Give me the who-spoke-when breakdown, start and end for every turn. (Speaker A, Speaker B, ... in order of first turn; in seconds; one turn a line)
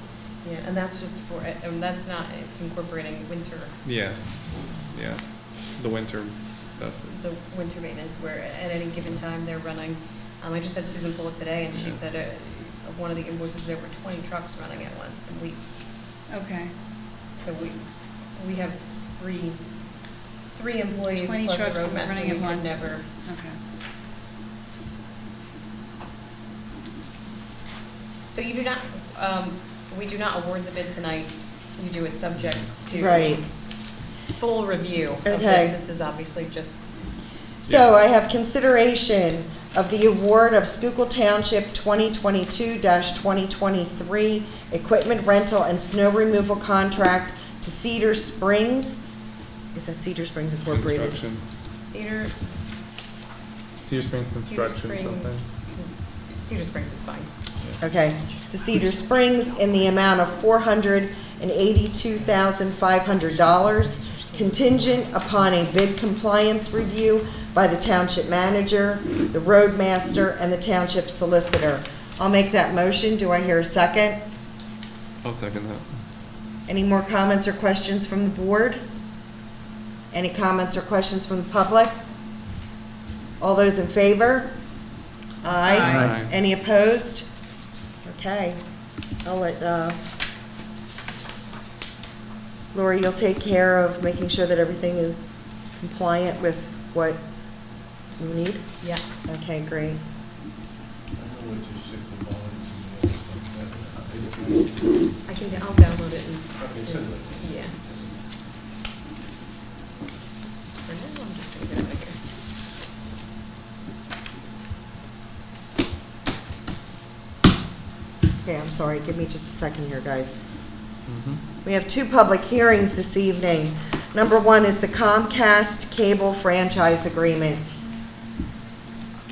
Speaker A: 0.4-3.8
Speaker B: 3.8-7.4
Speaker A: 7.1-15.6
Speaker B: 11.7-12.0
Speaker C: 16.3-16.8
Speaker A: 17.4-23.1
Speaker C: 21.1-23.6
Speaker A: 28.3-37.1
Speaker B: 32.4-32.7
Speaker D: 32.9-33.5
Speaker D: 35.2-35.8
Speaker D: 37.6-49.0
Speaker D: 49.7-51.2
Speaker B: 50.7-51.4
Speaker A: 51.8-52.4
Speaker B: 53.8-55.5
Speaker A: 54.4-57.3
Speaker D: 57.8-74.2
Speaker A: 63.3-64.9
Speaker B: 75.2-76.0
Speaker D: 76.7-78.8
Speaker D: 80.1-82.0
Speaker D: 83.4-84.8
Speaker D: 85.4-87.3
Speaker C: 85.5-86.1
Speaker B: 85.8-86.3
Speaker D: 88.0-88.6
Speaker D: 89.2-90.0
Speaker D: 92.7-100.0
Speaker A: 98.8-99.3
Speaker E: 101.1-105.2
Speaker A: 105.2-107.8
Speaker E: 106.5-108.3
Speaker A: 110.8-112.2
Speaker D: 118.4-120.4
Speaker B: 121.1-121.4
Speaker D: 121.6-127.6